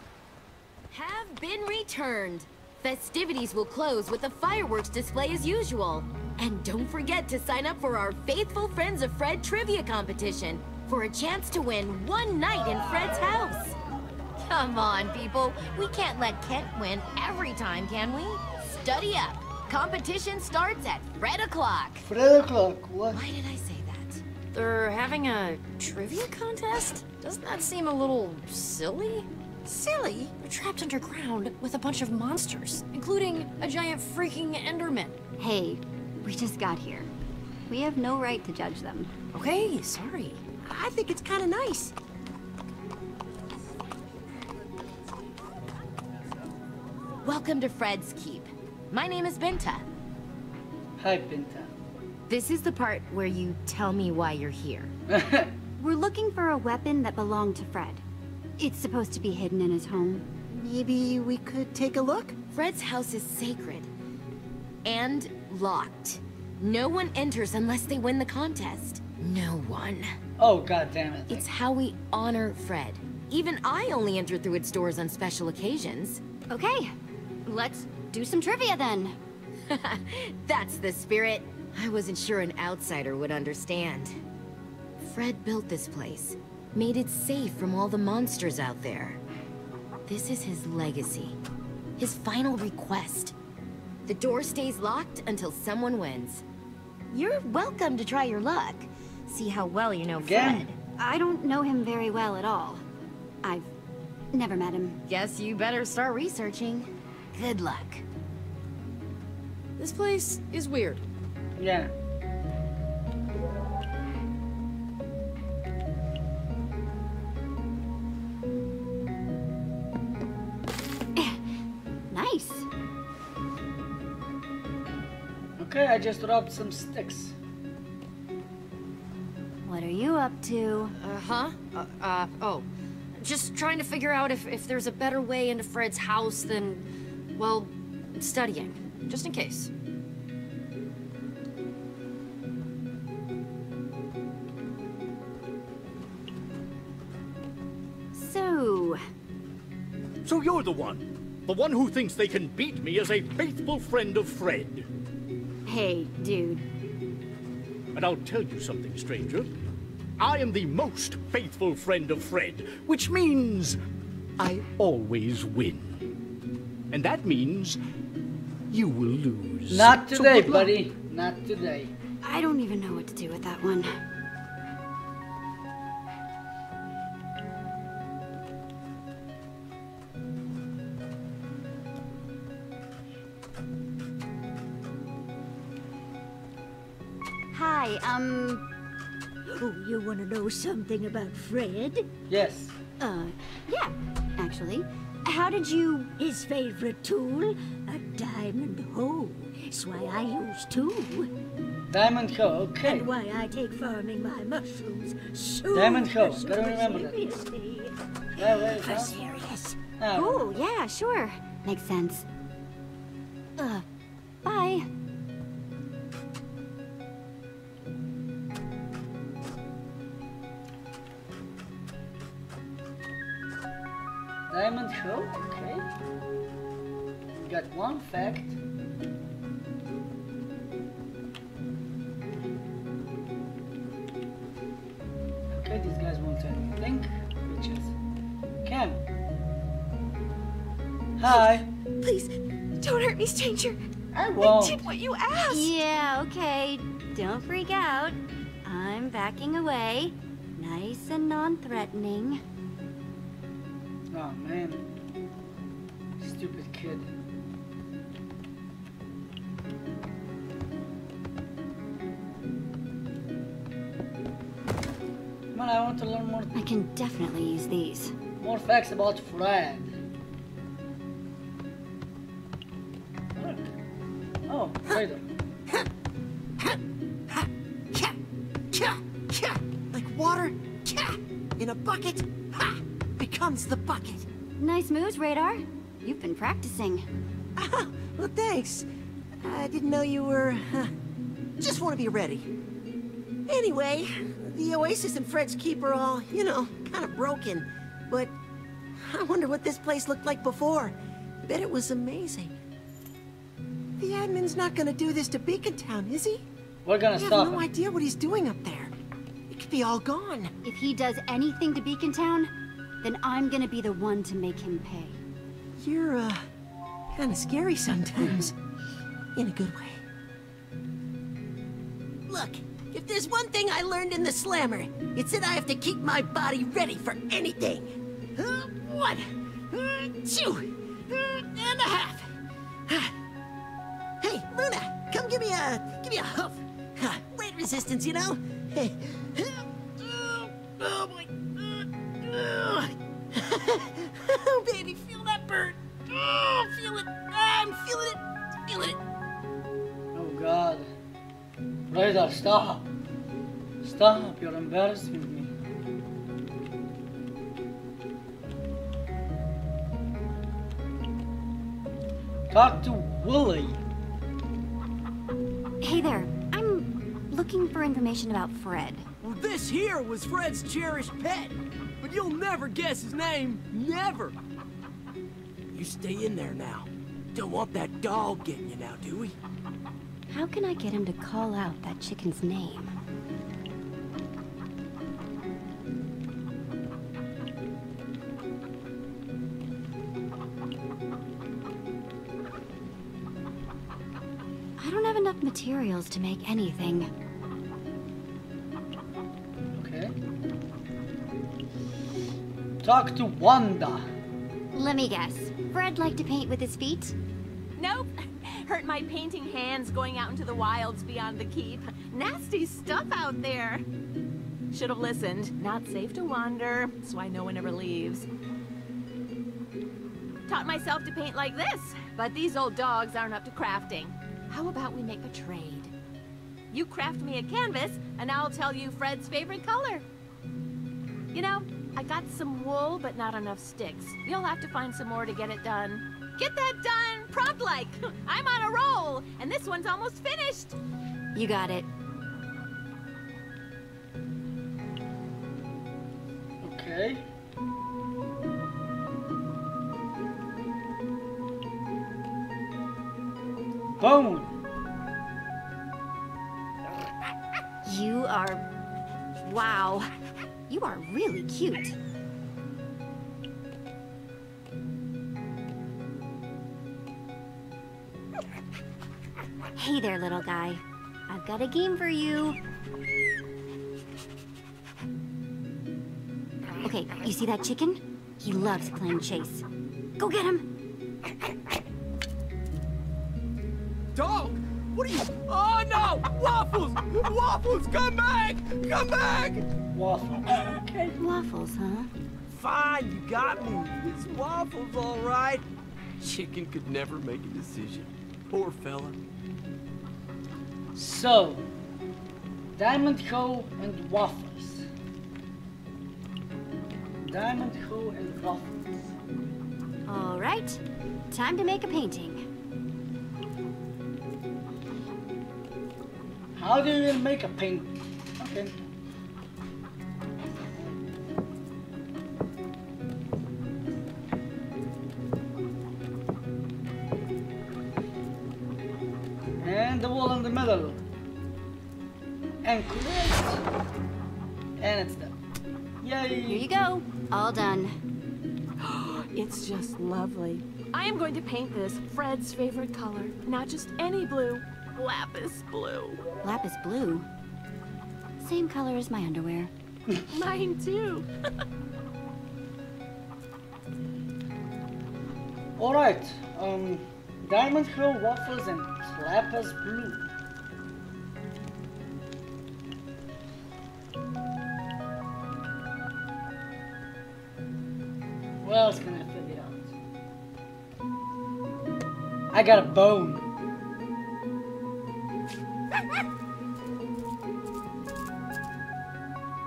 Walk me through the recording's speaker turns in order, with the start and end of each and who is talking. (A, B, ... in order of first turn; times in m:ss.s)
0:00.9-0:13.8 A
0:14.5-0:22.0 A
0:22.0-0:23.2 B
0:23.1-0:24.2 A
0:24.5-0:29.3 C
0:29.7-0:30.3 D
0:30.4-0:35.2 C
0:35.4-0:37.1 E
0:37.7-0:39.1 E
0:39.3-0:40.4 C
0:40.6-0:41.9 D
0:47.2-0:49.8 A
0:51.0-0:51.7 B
0:52.3-0:54.9 A
0:55.1-0:55.5 B
0:55.8-0:58.0 E
0:58.6-1:00.3 E
1:00.5-1:02.3 D
1:02.5-1:03.9 A
1:04.8-1:10.1 A
1:10.4-1:11.4 B
1:11.3-1:16.2 A
1:16.5-1:16.9 E
1:17.4-1:19.2 E
1:19.7-1:24.2 A
1:25.0-1:29.2 A
1:30.1-1:31.4 A
1:32.0-1:33.3 A
1:34.0-1:36.4 A
1:37.1-1:40.8 A
1:40.2-1:40.7 B
1:41.0-1:42.8 E
1:43.4-1:43.7 E
1:44.3-1:45.0 E
1:45.1-1:48.0 A
1:49.8-1:51.0 C
1:51.6-1:51.9 B
2:02.1-2:02.7 E
2:05.6-2:07.3 B
2:09.6-2:10.9 E
2:11.0-2:19.7 C
2:28.1-2:29.0 E
2:30.2-2:34.9 F
2:35.6-2:36.6 E
2:37.9-2:39.5 F
2:40.2-2:43.8 F
2:44.4-2:46.0 F
2:46.9-2:47.8 F
2:48.7-2:50.7 F
2:49.7-2:51.9 B
2:52.2-2:53.9 E
3:07.5-3:08.6 E
3:09.7-3:12.0 G
3:12.3-3:12.8 B
3:13.0-3:16.1 E
3:16.2-3:20.9 G
3:21.9-3:23.1 B
3:25.7-3:27.2 B
3:28.4-3:29.2 B
3:30.0-3:30.5 B
3:30.1-3:32.2 E
3:33.6-3:33.8 E
3:34.4-3:34.8 E
3:44.5-3:45.9 B
3:47.3-3:48.6 B
3:55.5-3:57.9 B
3:58.6-3:59.0 B
4:01.2-4:01.6 B
4:01.2-4:03.8 H
4:04.1-4:04.8 B
4:04.4-4:05.7 H
4:05.5-4:12.4 E
4:14.1-4:14.8 B
4:16.2-4:17.1 B
4:25.5-4:26.5 B
4:26.5-4:28.1 E
4:28.4-4:29.9 B
4:33.4-4:33.7 B
4:34.5-4:35.2 B
4:37.3-4:38.1 D
4:38.7-4:44.2 D
4:44.6-4:47.0 E
4:47.6-4:48.8 D
4:49.4-4:50.9 D
4:51.6-4:52.5 D
4:53.5-4:58.3 D
4:59.0-5:02.5 D
5:04.0-5:06.4 D
5:06.8-5:07.7 B
5:07.2-5:08.9 D
5:09.5-5:10.5 D
5:10.6-5:12.5 E
5:13.0-5:15.2 E
5:15.8-5:16.4 D
5:17.1-5:18.5 D
5:19.3-5:20.0 D
5:22.3-5:32.3 D
5:34.2-5:49.0 D
5:50.1-5:50.9 B
5:51.9-5:52.8 B
5:53.8-5:55.5 B
6:02.5-6:03.8 B
6:05.8-6:09.0 E
6:09.2-6:14.3 I
6:15.7-6:19.3 D
6:17.6-6:18.0 I
6:20.3-6:22.9 E
6:34.8-6:37.1 E
6:39.8-6:40.1 B
6:42.8-6:44.0 B
6:44.7-6:47.1 E
6:47.8-6:53.8 J
6:54.7-6:58.3 J
7:00.5-7:05.9 J
7:06.7-7:10.0 J
7:11.3-7:20.7 J
7:21.3-7:21.9 E
7:26.6-7:27.2 B
7:34.0-7:34.5 B
7:37.8-7:38.6 E
7:39.4-7:40.1 E
7:40.7-7:42.0 E
7:49.8-7:52.6 E
7:56.8-7:59.6 E
8:00.2-8:00.7 E
8:04.1-8:09.7 I
8:09.9-8:11.1 B
8:11.2-8:12.1 E
8:12.5-8:15.6 I
8:16.2-8:19.2 I
8:20.9-8:21.6 B
8:22.7-8:24.9 B
8:27.2-8:28.7 B
8:30.1-8:32.4 E
8:36.6-8:38.7 B
8:49.6-8:51.0 B
8:52.6-8:53.6 B
8:54.8-8:55.3 B
8:56.0-8:56.7 B
8:56.5-8:58.0 E
8:58.8-9:06.2 J
9:06.4-9:07.3 E
9:08.4-9:09.7 E
9:10.3-9:11.3 J
9:15.8-9:20.3 B
9:28.6-9:29.9 B
9:32.5-9:33.5 B